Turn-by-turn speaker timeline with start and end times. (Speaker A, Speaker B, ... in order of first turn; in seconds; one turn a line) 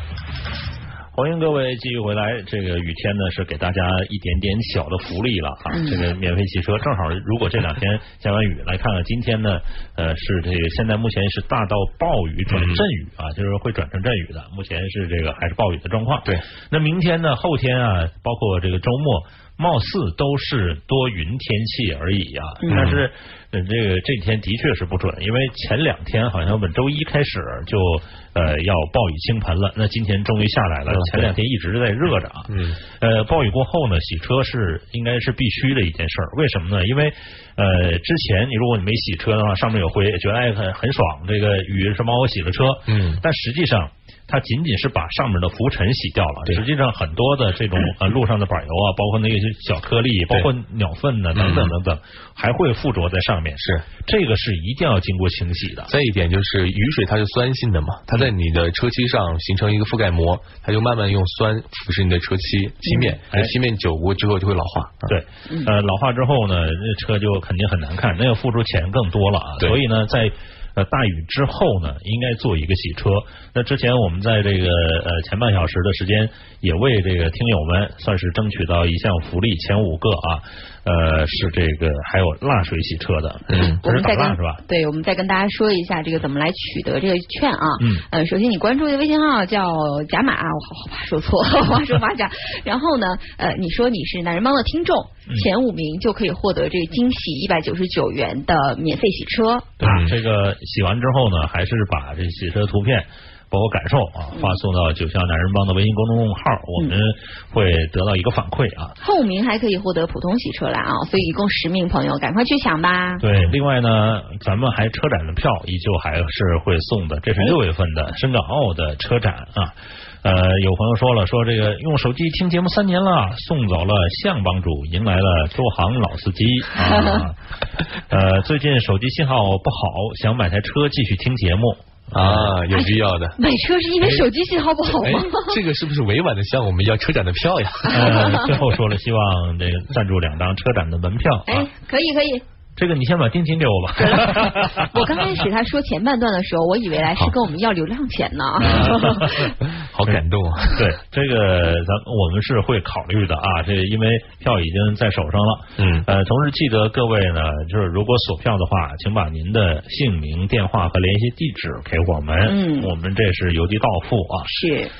Speaker A: 1.1-55.9
Speaker B: 5.7-6.0
Speaker C: 12.5-12.8
Speaker B: 22.6-22.9
Speaker C: 22.7-23.1
Speaker C: 30.9-31.3
Speaker C: 32.5-32.8
Speaker C: 42.9-43.2
Speaker C: 51.3-51.8
Speaker C: 53.6-53.9
Speaker C: 55.9-65.1
Speaker B: 62.9-63.2
Speaker A: 65.1-84.6
Speaker C: 83.5-83.8
Speaker B: 83.8-99.8
Speaker A: 87.8-88.0
Speaker A: 99.8-109.0
Speaker C: 99.8-100.2
Speaker B: 109.0-113.2
Speaker A: 113.2-127.4
Speaker B: 126.8-127.2
Speaker A: 128.1-132.6
Speaker C: 132.1-133.4
Speaker B: 133.4-135.6
Speaker C: 134.0-134.3
Speaker C: 134.8-138.4
Speaker A: 137.9-141.7
Speaker B: 137.9-138.5
Speaker B: 141.5-142.4
Speaker A: 142.8-145.3
Speaker B: 144.0-149.5
Speaker A: 148.6-149.5
Speaker C: 149.7-150.9
Speaker A: 150.1-164.5
Speaker C: 155.8-156.1
Speaker B: 162.4-162.9
Speaker B: 164.5-164.9